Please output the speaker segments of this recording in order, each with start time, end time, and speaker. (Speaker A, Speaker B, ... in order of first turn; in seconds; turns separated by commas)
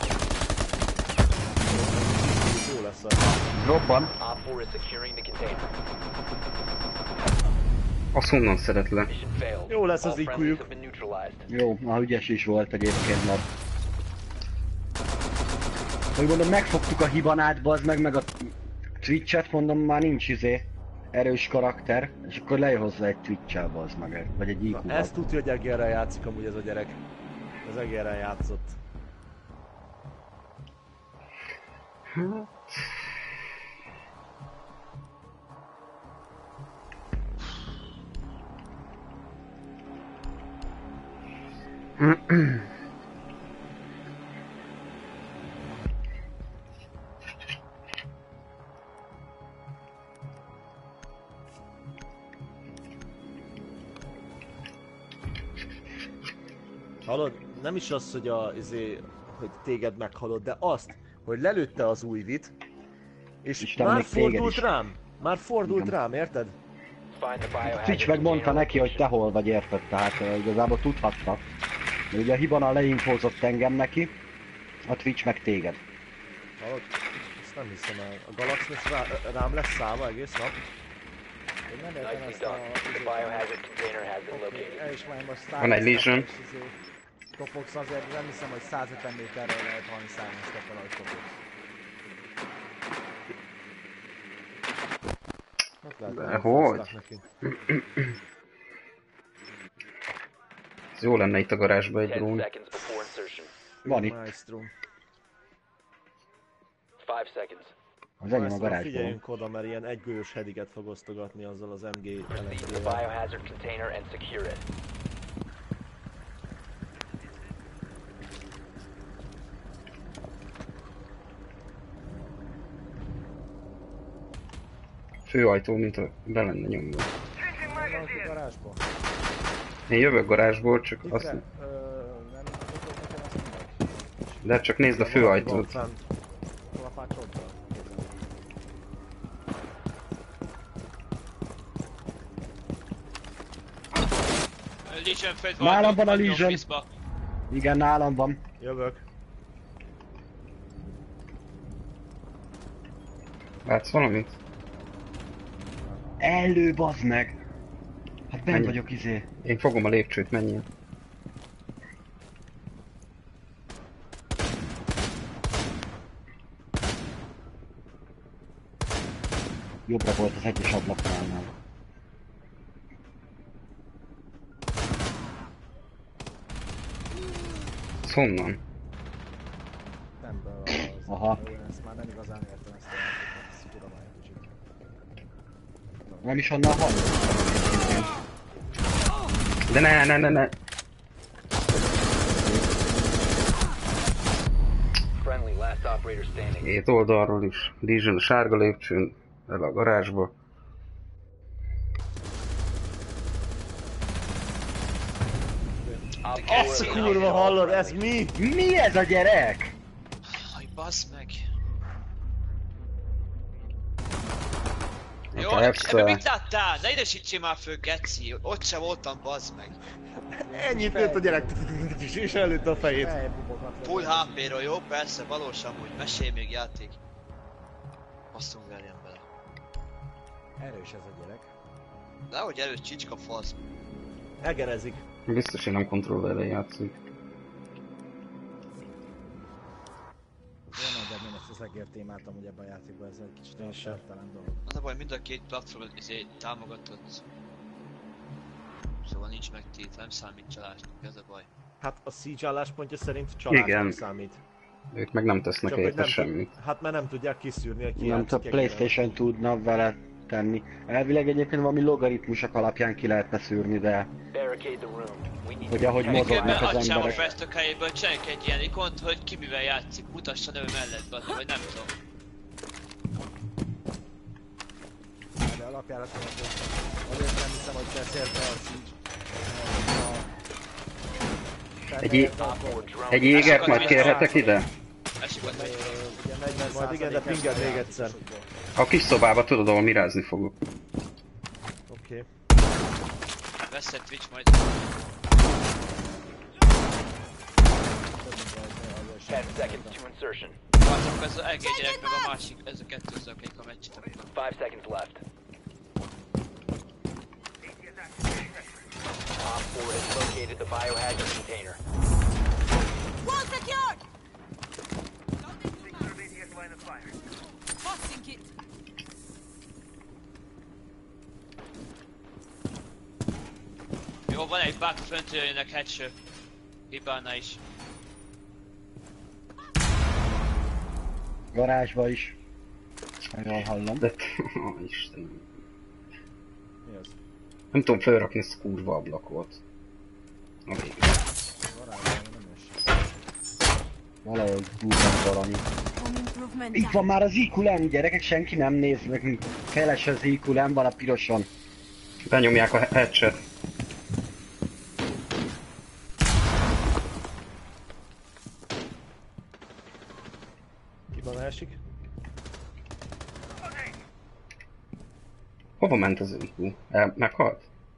Speaker A: 1.6-3.3, Speaker B: 3.6-4.1, Speaker C: 4.2-5.7, Speaker D: 8.1-9.1, Speaker C: 9.1-11.5, Speaker A: 9.7-10.7, Speaker B: 11.5-13.4, Speaker B: 16.1-25.1, Speaker A: 24.7-27.0, Speaker A: 27.6-28.8, Speaker D: 32.1-32.9, Speaker D: 42.0-42.7, Speaker A: 57.0-62.5, Speaker A: 63.4-66.5, Speaker B: 63.6-64.7, Speaker B: 65.6-65.9, Speaker C: 67.1-69.1, Speaker B: 67.6-71.4, Speaker B: 72.1-74.1, Speaker B: 74.8-75.8, Speaker A: 76.6-80.5, Speaker E: 81.7-83.5, Speaker C: 82.0-84.8, Speaker E: 84.3-86.8, Speaker D: 85.6-86.3, Speaker E: 87.3-91.4, Speaker A: 95.8-97.2, Speaker D: 96.1-96.9, Speaker D: 97.5-98.0, Speaker D: 101.0-102.5, Speaker C: 102.0-103.5, Speaker A: 103.8-104.7, Speaker B: 103.8-104.2, Speaker C: 107.0-107.7, Speaker B: 108.2-109.2, Speaker A: 108.3-113.0, Speaker C: 112.3-114.7, Speaker D: 125.2-127.1, Speaker E: 127.7-128.8, Speaker D: 129.9-131.4, Speaker E: 131.0-134.4, Speaker D: 134.4-135.8, Speaker A: 134.9-136.0, Speaker E: 136.7-138.2, Speaker F: 144.8-146.9, Speaker B: 145.6-146.6, Speaker B: 147.5-148.4, Speaker A: 148.6-149.0, Speaker D: 153.6-154.3, Speaker B: 156.2-157.4, Speaker B: 158.3-159.2, Speaker D: 158.5-158.8, Speaker D: 159.4-160.7, Speaker B: 169.9-171.5, Speaker D: 178.0-178.6, Speaker E: 180.2-184.5, Speaker B: 181.1-181.4, Speaker E: 186.1-186.3, Speaker B: 186.2-188.1, Speaker D: 189.7-190.5, Speaker C: 195.2-196.7, Speaker D: 196.6-200.3, Speaker A: 205.8-208.4, Speaker C: 206.2-208.1, Speaker F: 206.3-207.5, Speaker B: 208.4-209.7, Speaker F: 210.3-211.4, Speaker D: 215.3-216.2, Speaker F: 215.3-219.8, Speaker A: 220.3-223.1, Speaker E: 220.4-224.4, Speaker F: 223.8-227.0, Speaker F: 228.3-229.2, Speaker E: 230.6-231.5, Speaker F: 232.3-233.6, Speaker A: 234.4-235.0, Speaker D: 235.3-236.9, Speaker E: 240.7-244.6, Speaker A: 243.6-244.0, Speaker F: 244.7-247.2, Speaker F: 249.0-251.5, Speaker A: 251.8-254.4, Speaker D: 253.5-254.0, Speaker D: 254.9-256.5, Speaker A: 255.7-259.0, Speaker B: 257.9-264.1, Speaker C: 264.3-267.4, Speaker B: 265.7-267.3, Speaker F: 266.1-271.9, Speaker E: 275.4-280.3, Speaker E: 281.9-282.8, Speaker D: 282.0-282.3, Speaker A: 282.0-282.7, Speaker C: 282.4-284.4, Speaker D: 283.1-284.7, Speaker F: 283.3-284.4, Speaker E: 283.6-284.5, Speaker F: 285.2-286.0, Speaker E: 285.4-288.5, Speaker A: 285.6-288.2, Speaker D: 288.8-290.6, Speaker A: 291.9-292.3, Speaker F: 293.7-294.8, Speaker E: 298.0-300.0, Speaker C: 299.2-300.6, Speaker F: 300.8-304.3, Speaker C: 304.3-305.2, Speaker C: 309.4-311.8, Speaker G: 313.2-314.0, Speaker G: 315.5-316.6, Speaker G: 317.8-318.5, Speaker F: 324.3-326.1, Speaker F: 326.9-327.6, Speaker B: 331.5-332.4, Speaker B: 333.3-334.0, Speaker D: 334.0-335.4, Speaker E: 336.8-337.1, Speaker D: 337.7-339.6, Speaker D: 340.7-341.1, Speaker E: 341.7-343.0, Speaker B: 344.2-345.6, Speaker G: 345.9-347.2, Speaker B: 346.7-351.5, Speaker D: 352.2-353.4, Speaker A: 361.1-361.8, Speaker D: 365.8-367.7